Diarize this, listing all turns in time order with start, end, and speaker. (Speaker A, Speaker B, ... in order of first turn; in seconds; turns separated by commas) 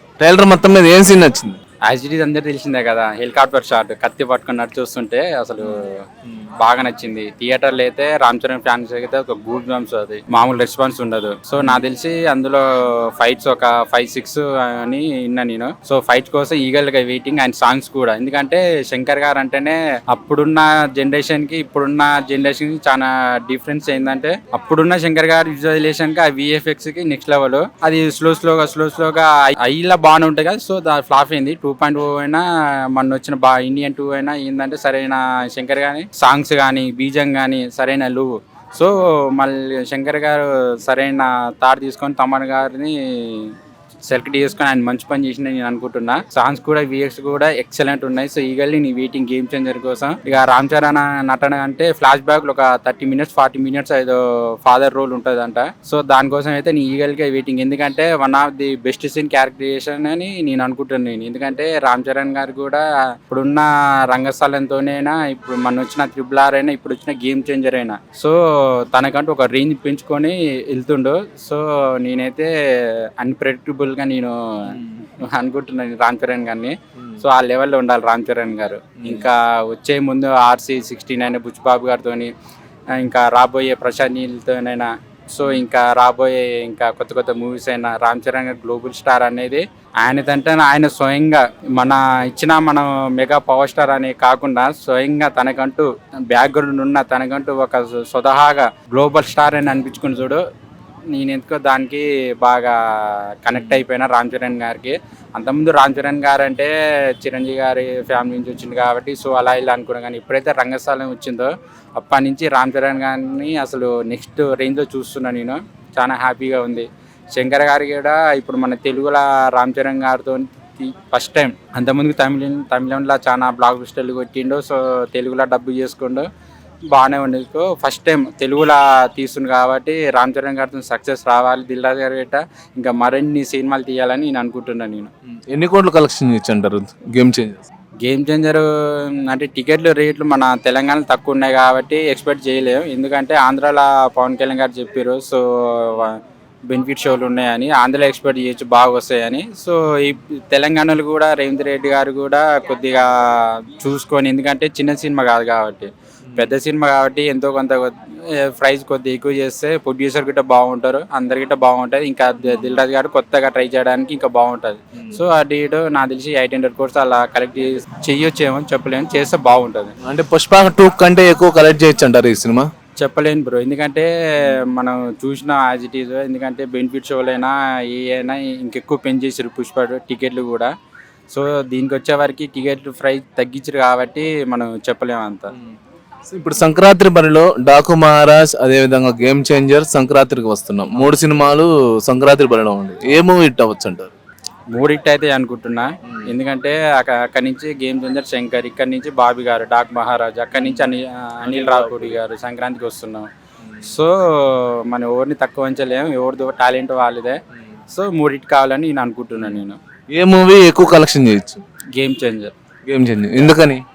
Speaker A: 0.2-1.6, Speaker B: 1.9-6.0, Speaker A: 5.6-6.5, Speaker B: 6.6-43.5, Speaker B: 44.1-74.6, Speaker A: 74.7-75.0, Speaker B: 75.2-82.3, Speaker A: 77.0-77.2, Speaker A: 79.0-79.3, Speaker B: 82.9-100.4, Speaker B: 101.1-126.3, Speaker A: 103.5-103.8, Speaker B: 126.9-135.1, Speaker A: 135.3-137.7, Speaker B: 138.0-169.9, Speaker A: 156.2-156.6, Speaker A: 162.4-162.8, Speaker A: 170.1-172.7, Speaker B: 173.0-180.7, Speaker B: 181.3-185.5, Speaker A: 186.3-194.1, Speaker B: 194.7-203.3, Speaker A: 200.6-200.9, Speaker A: 201.4-202.2, Speaker A: 203.6-203.9, Speaker B: 203.9-207.4, Speaker B: 207.9-209.8, Speaker A: 209.4-209.6, Speaker A: 210.1-211.6, Speaker B: 211.9-212.5, Speaker A: 212.9-213.8